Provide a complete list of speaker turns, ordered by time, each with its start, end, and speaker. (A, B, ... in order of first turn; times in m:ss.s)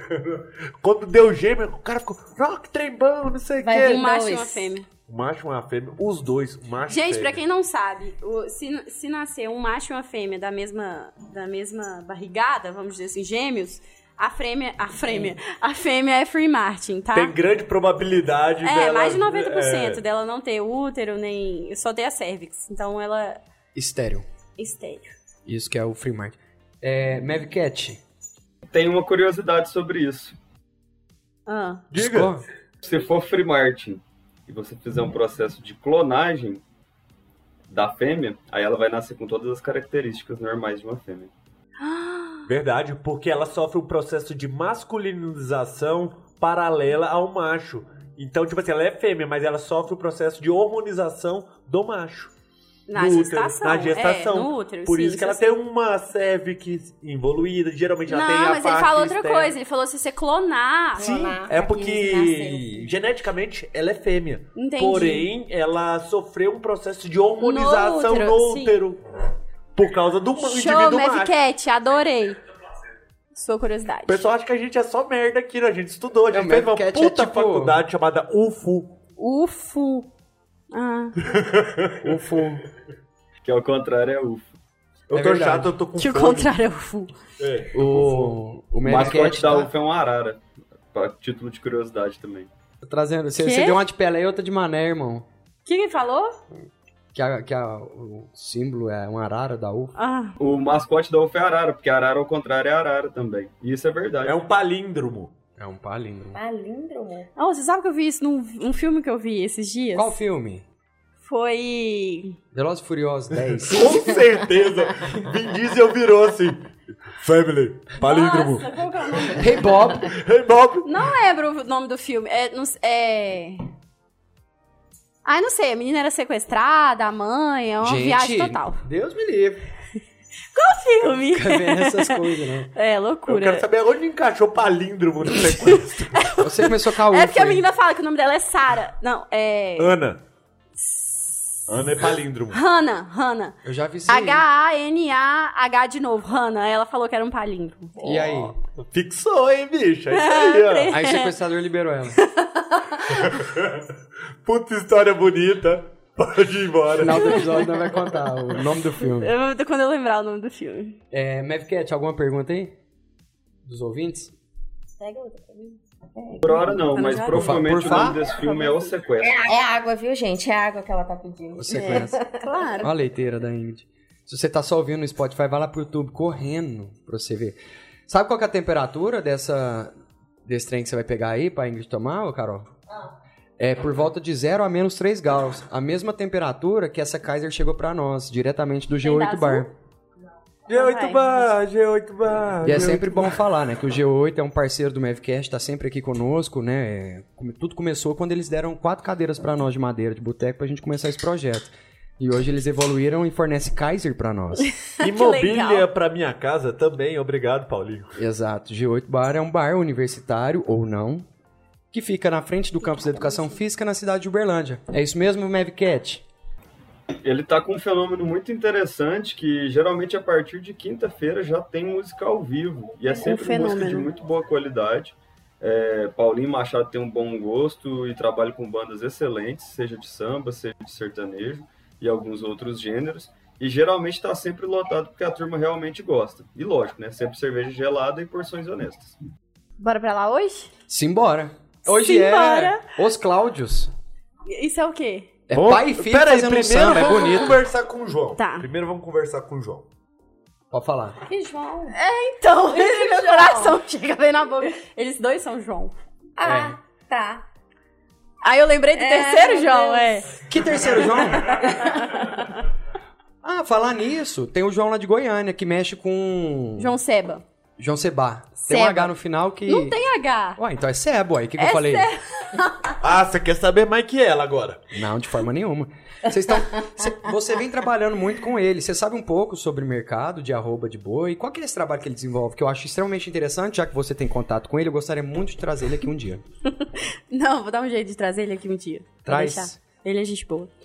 0:00.1-0:04.0 A
0:03.6-0:04.7 B
0:03.8-0:04.9 C
0:05.1-0:07.4 A
0:06.9-0:17.3 C
0:17.1-0:20.0 A
0:18.6-0:23.4 C
0:23.7-0:24.2 D
0:24.6-0:25.1 C
0:25.4-0:28.0 D
0:28.7-0:30.4 E
0:31.5-0:31.8 C
0:31.9-0:32.3 A
0:31.9-0:32.4 D
0:32.8-0:36.6 E
0:37.7-0:41.3 E
0:41.8-0:42.5 C
0:42.4-0:52.3 A
0:52.9-0:55.5 C
0:52.9-0:59.5 A
0:58.1-1:01.0 C
1:00.9-1:02.9 B
1:01.0-1:09.0 A
1:04.5-1:05.3 C
1:07.4-1:08.8 C
1:09.8-1:11.3 A
1:10.4-1:12.4 C
1:13.3-1:14.2 C
1:14.1-1:19.0 A
1:16.3-1:17.8 D
1:19.2-1:20.1 C
1:20.7-1:21.2 C
1:21.2-1:22.0 A
1:22.0-1:22.7 D
1:23.4-1:24.5 E
1:25.1-1:26.5 A
1:25.1-1:25.8 D
1:26.0-1:27.1 C
1:27.4-1:28.3 A
1:27.7-1:29.7 D
1:28.8-1:30.4 E
1:30.9-1:32.5 E
1:32.8-1:35.3 D
1:33.4-1:33.8 C
1:35.6-1:36.4 C
1:37.1-1:39.9 D
1:40.0-1:40.4 C
1:40.4-1:44.4 E
1:44.2-1:45.3 A
1:45.6-1:46.4 D
1:46.3-1:47.3 B
1:47.4-1:50.1 C
1:49.9-1:50.6 D
1:51.2-1:52.4 C
1:52.5-1:54.0 D
1:53.7-1:58.7 A
1:58.0-1:59.7 C
1:59.3-2:00.1 D
2:00.0-2:00.9 A
2:00.8-2:03.6 C
2:05.2-2:08.8 C
2:07.8-2:09.6 D
2:10.5-2:13.7 C
2:11.3-2:12.7 D
2:13.3-2:16.2 A
2:15.7-2:20.0 C
2:16.3-2:17.6 D
2:19.8-2:20.2 A
2:20.8-2:21.7 C
2:21.7-2:22.6 A
2:22.5-2:23.6 C
2:23.6-2:24.4 D
2:24.1-2:28.2 C
2:28.0-2:28.5 D
2:28.2-2:30.9 A
2:30.1-2:31.3 C
2:30.9-2:32.2 D
2:32.1-2:33.4 C
2:33.1-2:33.9 A
2:34.4-2:37.4 A
2:37.0-2:39.3 D
2:37.0-2:37.8 C
2:39.0-2:41.0 C
2:41.1-2:42.7 D
2:43.6-2:44.3 D
2:45.0-2:46.8 B
2:46.4-2:49.4 E
2:46.8-2:48.9 C
2:47.3-2:48.2 D
2:49.2-2:52.4 B
2:51.5-2:52.2 D
2:51.9-2:52.9 C
2:52.8-2:59.9 D
3:00.4-3:02.7 D
3:03.6-3:09.7 D
3:09.0-3:09.7 B
3:10.7-3:13.4 A
3:10.7-3:11.3 C
3:12.6-3:24.7 D
3:24.6-3:25.9 C
3:25.0-3:28.2 A
3:28.2-3:31.2 D
3:31.9-3:36.2 D
3:37.2-3:59.2 E
3:43.1-3:44.1 C
3:59.8-4:00.7 C
4:00.9-4:03.9 D
4:01.9-4:02.8 C
4:04.5-4:05.3 C
4:05.5-4:07.6 D
4:05.5-4:09.9 A
4:08.4-4:08.6 C
4:10.7-4:11.2 D
4:11.3-4:12.0 B
4:11.9-4:15.9 C
4:12.7-4:13.8 B
4:16.4-4:17.4 B
4:16.4-4:16.7 D
4:18.4-4:20.4 C
4:19.0-4:20.2 B
4:20.5-4:21.6 D
4:21.2-4:22.5 C
4:23.4-4:26.9 D
4:26.8-4:27.4 C
4:27.8-4:30.0 D
4:28.6-4:29.1 C
4:29.6-4:30.6 C
4:30.6-4:32.1 D
4:31.6-4:33.0 C
4:33.0-4:34.8 A
4:34.9-4:46.4 D
4:46.7-4:50.7 C
4:49.2-4:49.8 D